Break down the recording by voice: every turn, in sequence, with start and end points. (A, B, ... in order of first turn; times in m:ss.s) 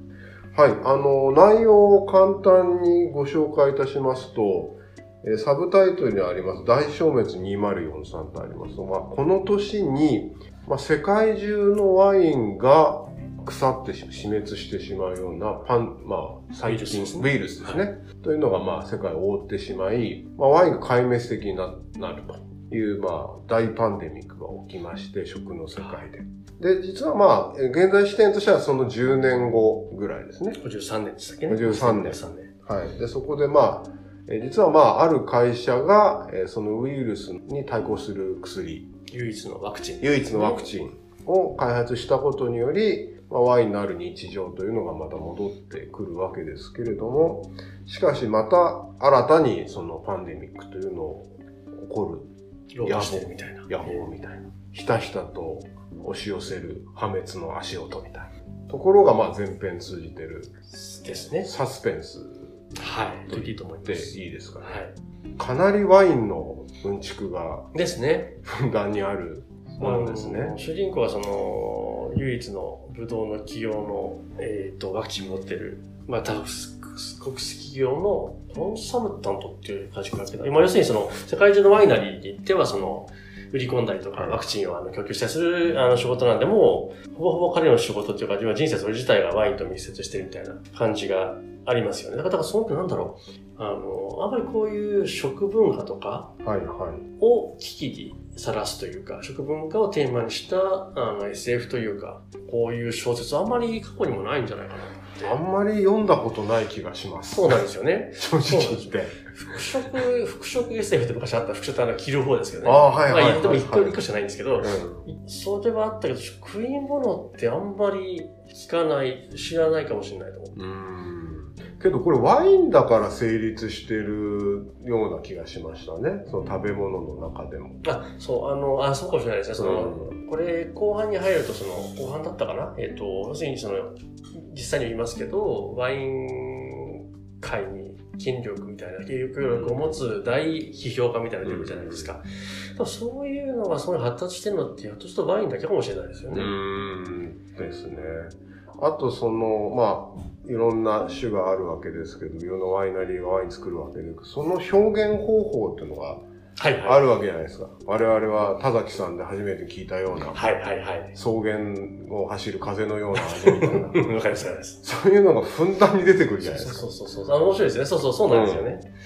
0:00.5-0:30.6 A
0:16.6-0:17.8 B
0:25.8-0:26.0 B
0:30.6-0:32.5 B
0:31.5-0:38.9 A
0:39.1-0:40.7 B
0:40.0-0:52.3 A
0:52.7-0:54.0 B
0:52.8-1:00.5 A
1:00.7-1:01.5 B
1:01.3-1:04.8 A
1:02.8-1:05.0 B
1:05.4-1:07.7 A
1:07.7-1:08.4 B
1:08.4-1:10.6 A
1:09.8-1:36.3 B
1:24.2-1:24.4 A
1:36.4-1:37.1 A
1:37.2-1:45.4 B
1:45.2-1:47.6 A
1:47.3-2:00.6 B
1:48.2-1:49.2 A
1:52.6-1:54.0 A
1:54.6-1:55.1 A
2:00.6-2:07.8 A
2:07.8-2:26.6 B
2:09.6-2:10.2 A
2:19.4-2:19.9 A
2:21.4-2:22.2 A
2:26.3-2:36.2 A
2:36.6-2:37.0 B
2:36.8-2:40.4 A
2:40.3-2:41.2 B
2:41.1-2:44.1 A
2:43.2-2:44.8 B
2:44.8-2:46.9 A
2:46.4-2:48.9 B
2:48.3-2:48.7 A